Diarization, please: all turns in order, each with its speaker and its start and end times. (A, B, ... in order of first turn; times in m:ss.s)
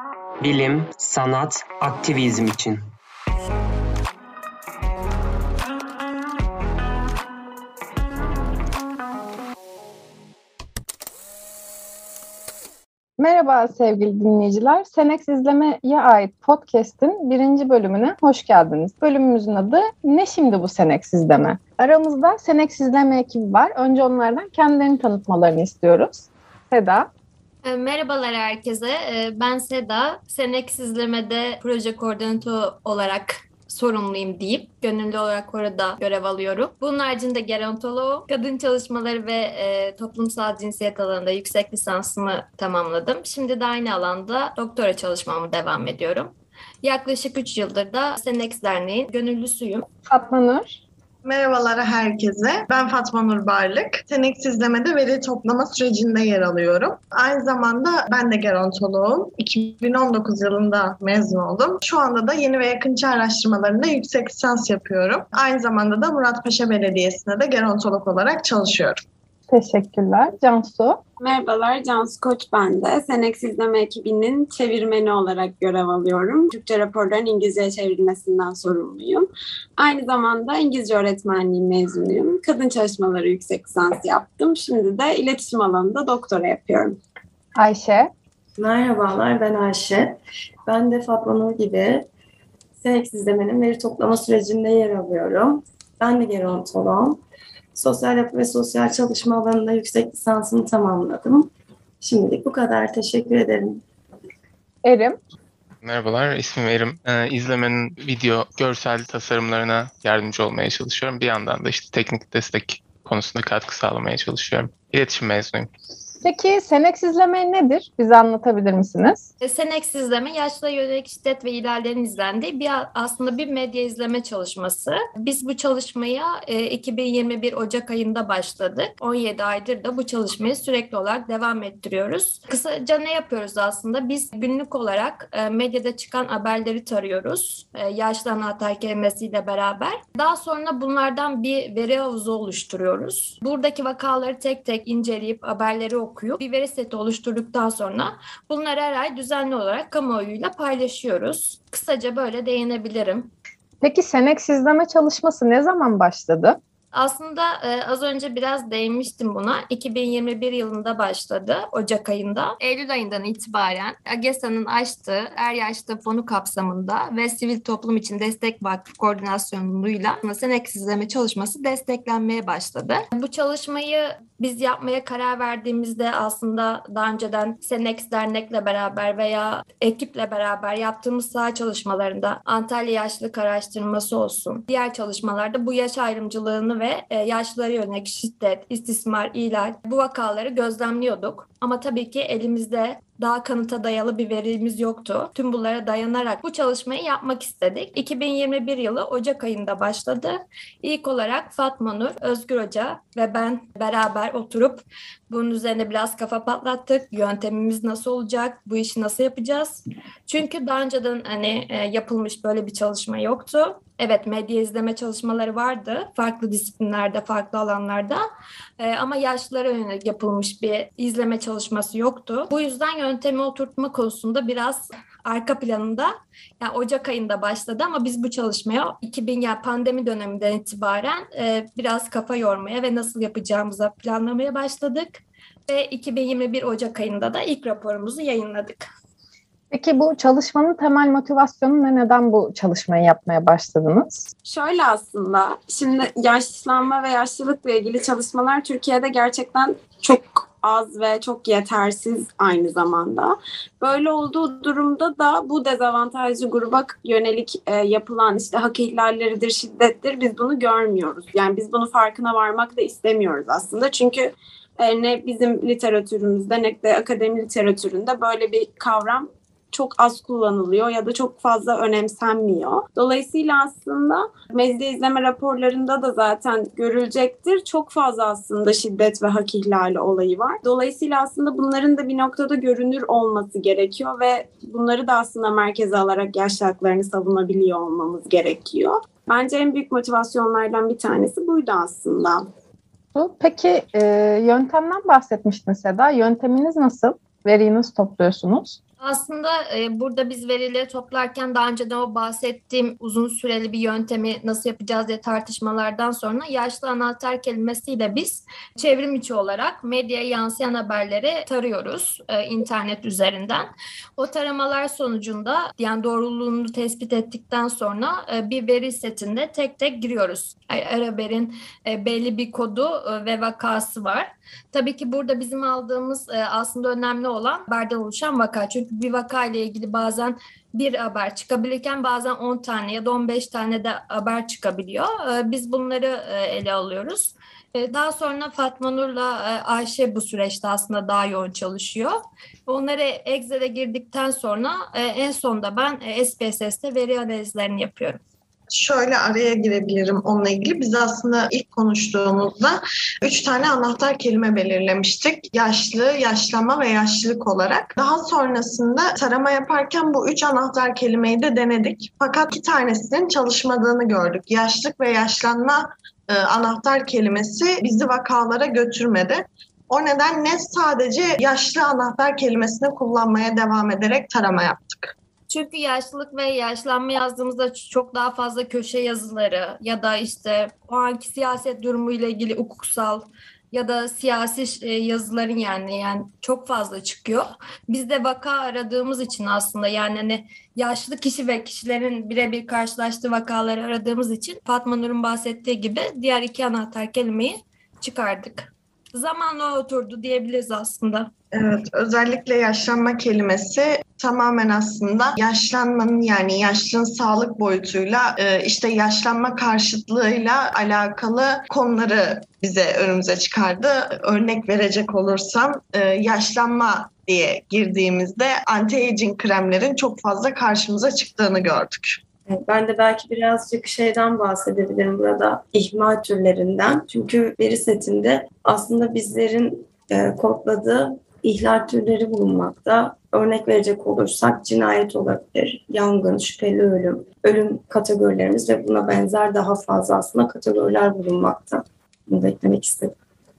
0:00.4-0:02.8 A
0:13.2-0:27.1 B
0:27.6-0:49.8 C
0:50.1-0:50.8 B
0:51.2-1:09.0 D
1:09.5-1:11.0 B
1:11.2-1:27.0 E
1:27.6-1:28.1 B
1:28.6-1:32.1 F
1:32.8-1:37.2 F
1:37.7-1:41.5 F
1:42.0-1:43.8 F
1:44.8-1:45.2 B
1:45.8-1:55.7 G
1:56.2-1:59.3 B
1:59.4-2:33.3 C
2:33.8-2:36.6 B
2:36.9-3:38.2 C
3:38.8-3:58.8 C
3:59.7-4:04.3 B
4:04.4-4:52.5 E
4:53.1-4:58.8 B
4:59.0-5:48.2 C
5:48.7-6:15.1 D
6:15.5-6:41.3 C
6:41.5-7:02.2 D
7:02.5-7:23.1 F